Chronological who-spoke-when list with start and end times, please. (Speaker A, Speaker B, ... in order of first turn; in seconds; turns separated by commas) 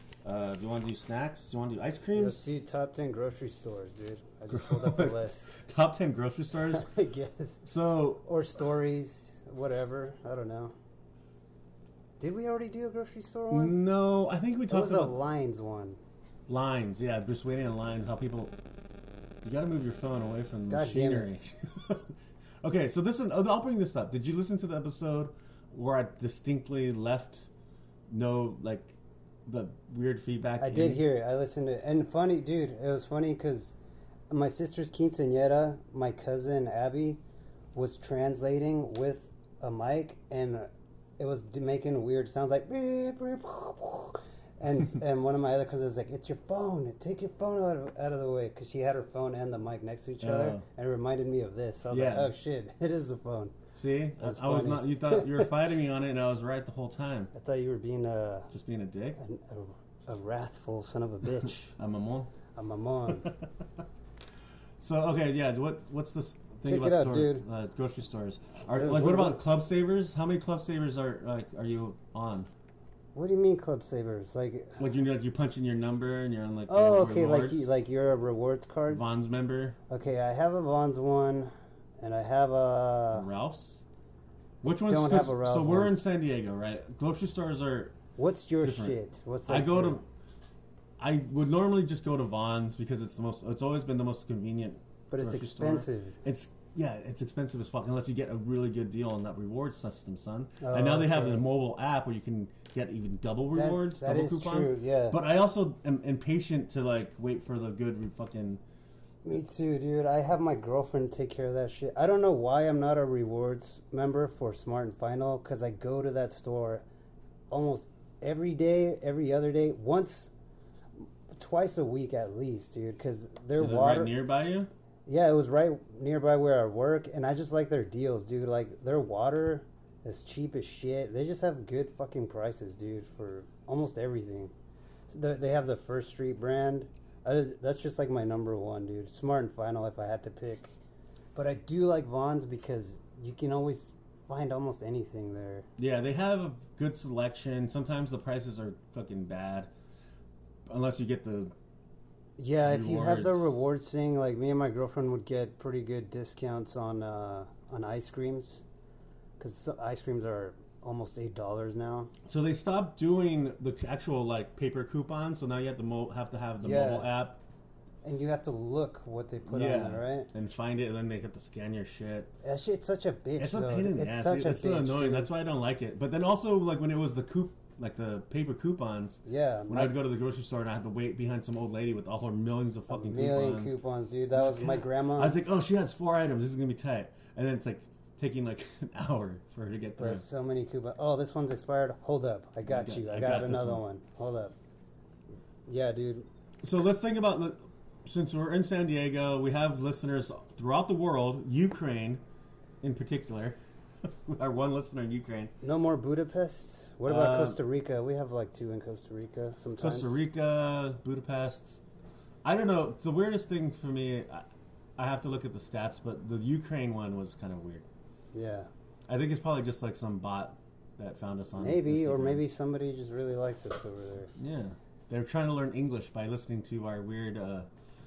Speaker A: 0.2-2.4, Speaker B: 2.1-5.6, Speaker A: 4.5-6.9, Speaker B: 6.6-7.6, Speaker A: 7.6-8.2, Speaker B: 8.2-10.7, Speaker B: 12.2-13.8, Speaker A: 13.5-15.2, Speaker B: 14.7-16.0, Speaker A: 16.5-18.5, Speaker A: 19.4-27.5, Speaker B: 20.7-21.3, Speaker A: 28.1-28.9, Speaker A: 29.4-31.0, Speaker B: 30.6-33.8, Speaker B: 34.3-37.2, Speaker B: 37.7-53.5, Speaker A: 50.2-50.6, Speaker A: 51.9-52.3, Speaker A: 53.7-57.3, Speaker B: 54.2-55.5, Speaker B: 57.3-58.5, Speaker A: 58.5-59.2, Speaker B: 59.2-61.7, Speaker A: 61.4-62.3, Speaker B: 62.5-63.3, Speaker A: 63.2-63.5, Speaker A: 64.8-72.5, Speaker B: 66.7-67.4, Speaker B: 68.8-69.4, Speaker B: 73.1-74.8, Speaker A: 74.8-77.7, Speaker B: 76.7-79.0, Speaker A: 78.9-79.8, Speaker B: 79.9-83.3, Speaker A: 83.1-83.8, Speaker A: 84.6-88.0, Speaker B: 84.9-86.0, Speaker B: 88.2-90.0, Speaker A: 88.6-90.0, Speaker A: 91.0-108.6, Speaker B: 95.1-96.2, Speaker B: 100.6-101.4, Speaker B: 103.5-105.2, Speaker B: 109.2-116.8, Speaker B: 117.5-120.3, Speaker B: 121.3-124.2, Speaker A: 123.6-124.7, Speaker B: 125.0-134.5, Speaker B: 135.1-140.8, Speaker B: 141.3-145.7, Speaker A: 145.8-149.7, Speaker A: 150.7-151.5, Speaker B: 152.4-158.6, Speaker A: 152.6-153.5, Speaker B: 159.4-162.1, Speaker A: 162.2-167.4, Speaker B: 166.6-167.1, Speaker B: 168.0-170.3, Speaker A: 169.5-172.3, Speaker B: 172.4-175.3, Speaker A: 173.4-183.8, Speaker B: 179.2-180.0, Speaker B: 182.9-185.4, Speaker A: 184.3-190.2, Speaker B: 190.0-194.5, Speaker A: 192.7-193.8, Speaker B: 195.7-196.3, Speaker A: 196.6-202.2, Speaker A: 202.8-205.5, Speaker B: 205.6-210.2, Speaker A: 207.1-207.6, Speaker A: 209.8-211.8, Speaker A: 212.4-214.4, Speaker A: 215.0-217.8, Speaker B: 218.3-218.7, Speaker A: 219.1-222.4, Speaker B: 221.6-224.3, Speaker A: 224.3-227.7